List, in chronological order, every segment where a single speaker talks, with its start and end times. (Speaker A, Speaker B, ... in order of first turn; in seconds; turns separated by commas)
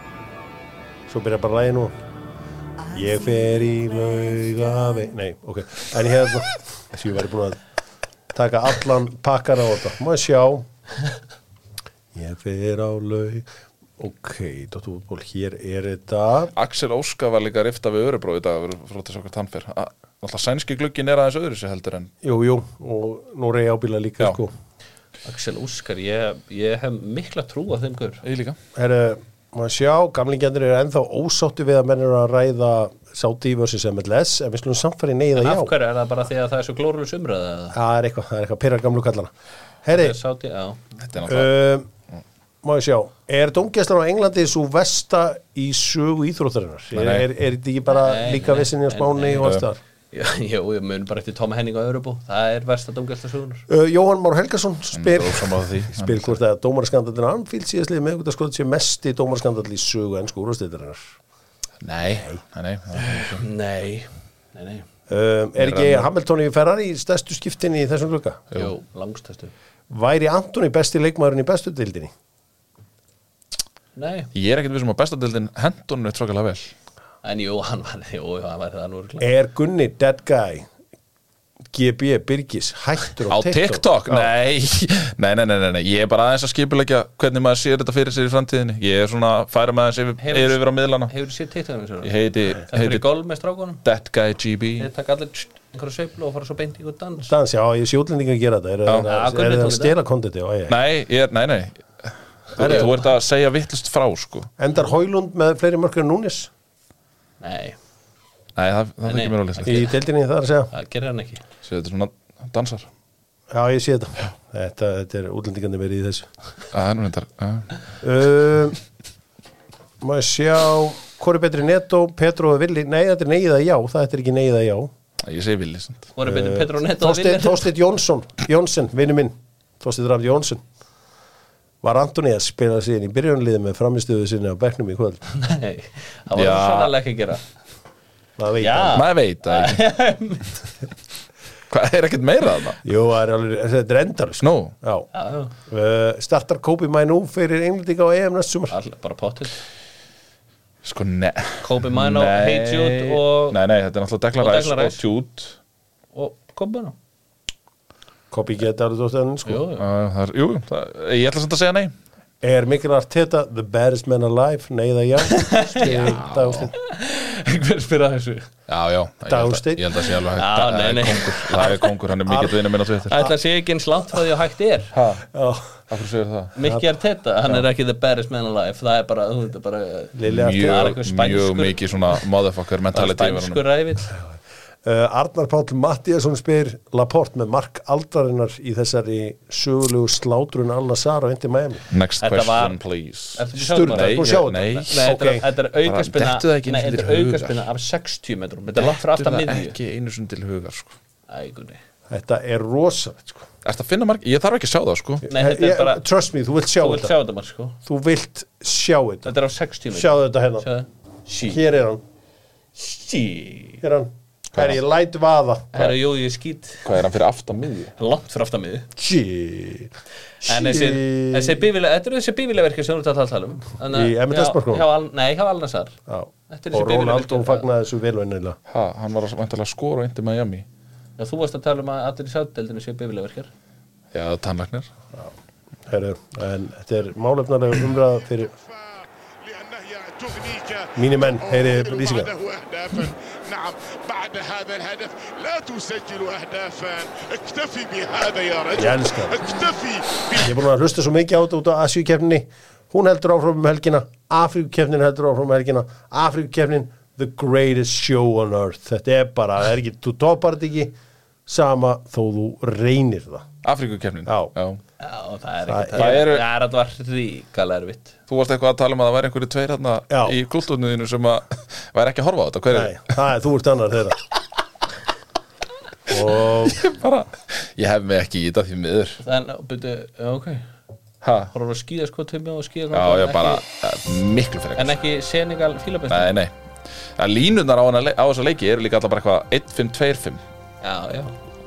Speaker A: 1.1-1.9, Speaker A: 2.9-7.6, Speaker A: 8.3-10.7, Speaker A: 12.1-13.5, Speaker A: 14.0-16.5, Speaker B: 16.5-22.1, Speaker A: 22.2-24.5, Speaker C: 25.2-28.2, Speaker B: 28.2-28.6, Speaker A: 28.8-35.7, Speaker C: 35.4-37.8, Speaker A: 37.7-39.3, Speaker A: 39.8-40.2, Speaker C: 39.9-40.8, Speaker B: 41.0-41.5, Speaker A: 41.2-41.9, Speaker A: 42.6-49.8, Speaker B: 46.9-47.3, Speaker C: 47.9-49.5, Speaker C: 50.1-53.7, Speaker A: 53.7-61.1, Speaker B: 54.9-56.4, Speaker B: 61.8-63.4, Speaker C: 63.1-64.9, Speaker A: 65.1-68.4, Speaker B: 65.6-66.1, Speaker C: 68.5-69.5, Speaker A: 69.9-72.1, Speaker C: 74.0-74.3, Speaker B: 74.3-76.7, Speaker C: 77.2-79.2, Speaker A: 79.2-80.7, Speaker A: 81.7-84.3, Speaker B: 83.3-91.1, Speaker C: 90.2-93.8, Speaker B: 92.0-93.1, Speaker B: 93.8-94.9, Speaker C: 94.8-97.3, Speaker A: 97.2-100.8, Speaker C: 99.0-100.0, Speaker B: 100.7-104.5, Speaker A: 102.6-102.9, Speaker C: 102.6-102.9, Speaker A: 104.6-106.5, Speaker C: 107.4-107.8, Speaker B: 108.6-109.8, Speaker C: 109.0-109.9, Speaker A: 109.6-110.7, Speaker C: 110.7-111.4, Speaker B: 111.6-112.9, Speaker A: 113.5-116.3, Speaker B: 116.7-117.8, Speaker A: 118.0-118.8, Speaker A: 120.0-124.9, Speaker B: 125.2-126.1, Speaker C: 126.2-127.7, Speaker A: 126.2-130.6, Speaker A: 131.8-135.2, Speaker C: 135.3-137.4, Speaker B: 136.3-136.9, Speaker A: 138.4-139.1, Speaker C: 138.6-140.6, Speaker B: 138.9-139.8, Speaker B: 141.7-142.8, Speaker A: 142.8-145.1, Speaker B: 144.4-144.7, Speaker C: 145.1-145.5, Speaker A: 145.6-148.8, Speaker C: 148.7-149.6, Speaker B: 150.8-155.6, Speaker C: 151.6-153.6, Speaker C: 154.4-155.0, Speaker C: 156.1-156.9, Speaker A: 158.3-159.7, Speaker C: 159.5-159.9, Speaker B: 159.8-161.9, Speaker A: 162.4-166.7, Speaker C: 165.2-166.2, Speaker B: 165.9-166.7, Speaker C: 166.7-168.5, Speaker B: 168.7-173.2, Speaker A: 169.3-170.0, Speaker C: 170.3-171.9, Speaker A: 172.3-172.6, Speaker C: 173.1-174.9, Speaker B: 174.9-175.3, Speaker A: 175.3-175.8, Speaker B: 175.9-176.5, Speaker C: 176.6-182.2, Speaker A: 180.2-180.9, Speaker B: 180.2-183.6, Speaker C: 182.9-184.1, Speaker A: 184.8-191.9, Speaker B: 191.9-195.1, Speaker C: 192.2-192.8, Speaker C: 193.3-199.8, Speaker A: 193.6-195.5, Speaker B: 195.8-197.7, Speaker B: 198.8-200.9, Speaker C: 201.3-201.8, Speaker A: 202.1-203.5, Speaker B: 203.6-205.3, Speaker A: 205.2-207.1, Speaker C: 205.3-206.0, Speaker C: 206.8-207.8, Speaker A: 207.9-209.3, Speaker C: 209.3-211.6, Speaker A: 209.9-210.7, Speaker A: 211.5-212.0, Speaker C: 212.8-213.8, Speaker A: 213.8-215.9, Speaker C: 215.7-217.0, Speaker B: 216.8-217.9, Speaker C: 217.6-218.9, Speaker A: 219.0-219.9, Speaker C: 220.4-226.0, Speaker A: 220.4-221.7, Speaker A: 223.9-224.9, Speaker A: 226.1-228.6, Speaker C: 226.5-227.7, Speaker B: 228.7-230.7, Speaker C: 231.2-233.5, Speaker B: 234.1-234.9, Speaker A: 235.9-238.5, Speaker D: 238.6-250.6, Speaker A: 241.0-242.3, Speaker A: 248.7-249.5, Speaker A: 250.4-261.0, Speaker A: 261.5-263.5, Speaker B: 263.6-264.8, Speaker A: 264.3-264.5, Speaker C: 265.0-268.2, Speaker A: 265.7-266.2, Speaker B: 266.0-266.4, Speaker B: 268.3-273.1, Speaker A: 270.1-270.4, Speaker A: 272.7-274.2, Speaker A: 276.1-276.9, Speaker B: 276.1-279.2, Speaker C: 279.2-280.7, Speaker B: 281.2-281.5, Speaker C: 281.5-283.6, Speaker B: 282.9-285.0, Speaker C: 284.8-286.4, Speaker B: 286.1-286.5, Speaker B: 287.2-290.4, Speaker C: 290.8-291.4